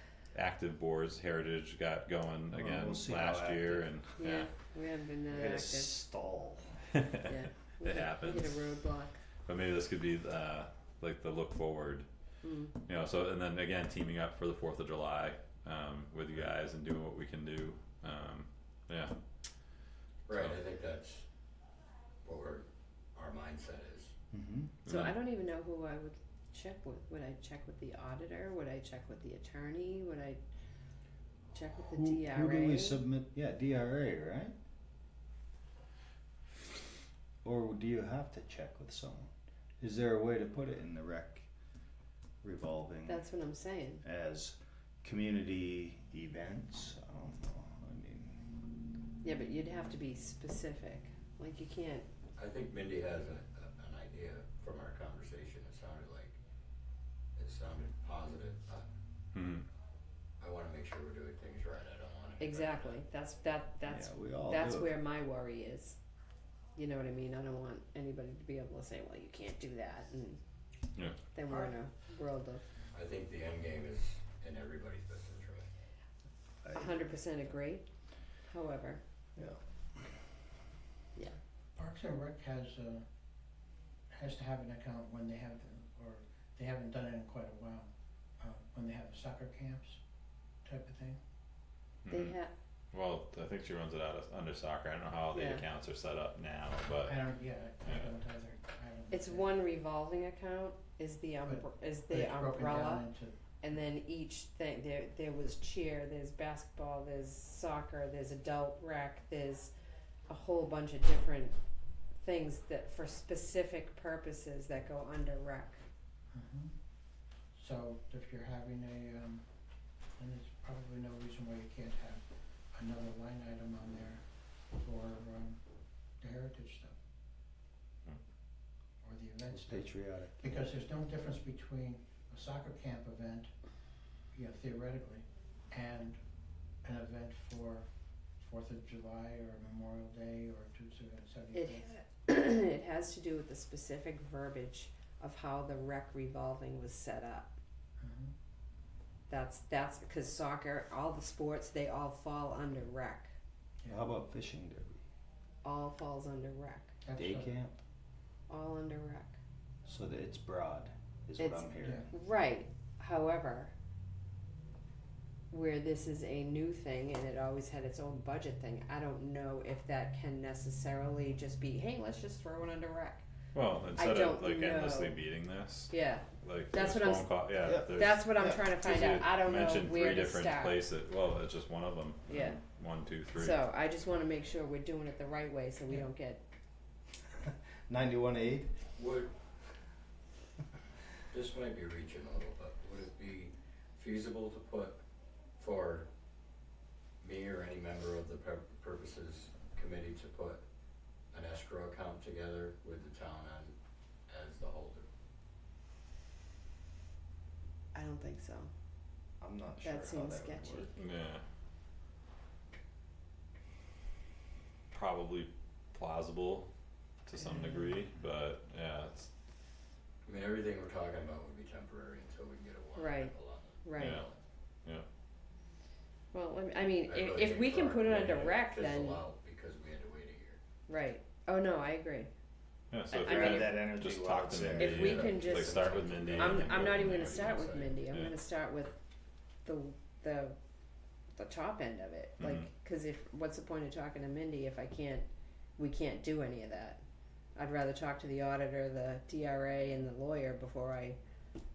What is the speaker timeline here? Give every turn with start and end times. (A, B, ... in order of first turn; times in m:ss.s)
0:00.3-0:04.5 A
0:02.5-0:03.9 B
0:04.2-0:06.0 C
0:05.3-0:06.8 B
0:07.0-0:08.6 A
0:07.2-0:09.2 C
0:09.4-0:12.0 A
0:12.4-0:12.8 C
0:12.8-0:19.1 A
0:20.3-0:21.2 D
0:20.3-0:20.6 A
0:22.2-0:24.1 D
0:24.3-0:24.8 B
0:24.8-0:25.1 A
0:24.8-0:25.1 D
0:24.9-0:30.4 C
0:31.5-0:33.0 C
0:31.9-0:34.6 B
0:37.4-0:41.5 B
0:42.4-0:43.2 B
0:43.0-0:44.0 C
0:44.0-0:48.4 B
0:49.2-0:52.0 C
0:52.4-0:56.4 D
0:57.4-0:58.8 D
0:59.3-0:59.6 A
1:00.4-1:03.0 D
1:02.4-1:06.0 C
1:03.8-1:05.0 B
1:06.8-1:10.4 C
1:11.3-1:12.6 C
1:12.9-1:15.7 D
1:16.6-1:16.9 B
1:16.7-1:17.8 C
1:18.5-1:19.0 C
1:19.4-1:20.1 B
1:21.8-1:23.0 E
1:24.1-1:30.0 E
1:30.6-1:31.2 E
1:32.0-1:32.4 A
1:32.1-1:32.5 C
1:32.9-1:37.2 A
1:35.3-1:35.6 C
1:37.0-1:39.5 E
1:37.8-1:38.1 A
1:39.1-1:43.0 C
1:41.4-1:43.4 E
1:43.6-1:49.7 C
1:50.3-1:51.5 C
1:52.2-1:55.8 C
1:56.3-1:56.7 E
1:57.5-1:59.4 E
2:00.2-2:05.6 E
2:06.2-2:07.0 E
2:09.0-2:13.5 E
2:09.5-2:10.4 B
2:14.3-2:16.2 E
2:16.8-2:17.9 E
2:18.4-2:21.9 E
2:21.5-2:27.5 C
2:28.0-2:28.3 E
2:29.3-2:33.3 C
2:33.8-2:35.0 B
2:35.6-2:37.0 C
2:37.0-2:37.5 E
2:37.1-2:37.8 B
2:38.5-2:39.4 C
2:39.8-2:42.1 B
2:41.4-2:43.7 C
2:41.8-2:42.1 E
2:45.5-2:53.2 C
2:53.5-2:58.3 A
2:53.9-2:55.2 C
2:55.9-3:00.8 C
2:57.6-2:58.6 B
2:58.8-3:03.6 A
3:02.3-3:02.6 C
3:03.3-3:06.4 C
3:07.4-3:08.8 B
3:09.0-3:09.3 D
3:11.3-3:15.0 D
3:15.6-3:16.1 D
3:17.2-3:20.6 D
3:21.3-3:23.7 D
3:24.3-3:25.1 D
3:27.9-3:28.7 C
3:29.4-3:30.9 B
3:29.8-3:30.9 C
3:30.9-3:31.4 A
3:34.9-3:36.7 A
3:37.2-3:39.3 A
3:37.4-3:37.8 C
3:40.2-3:44.4 D
3:43.0-3:44.2 C
3:44.0-3:44.2 A
3:46.3-3:49.2 C
3:47.0-3:50.6 D
3:50.9-3:52.3 C
3:52.9-3:58.4 A
3:53.1-3:53.9 C
3:53.1-3:55.1 B
3:54.8-3:58.9 C
3:54.9-3:58.0 D
3:59.6-4:00.6 C
4:01.4-4:05.3 C
4:02.4-4:02.7 A
4:05.8-4:07.0 C
4:07.6-4:11.2 C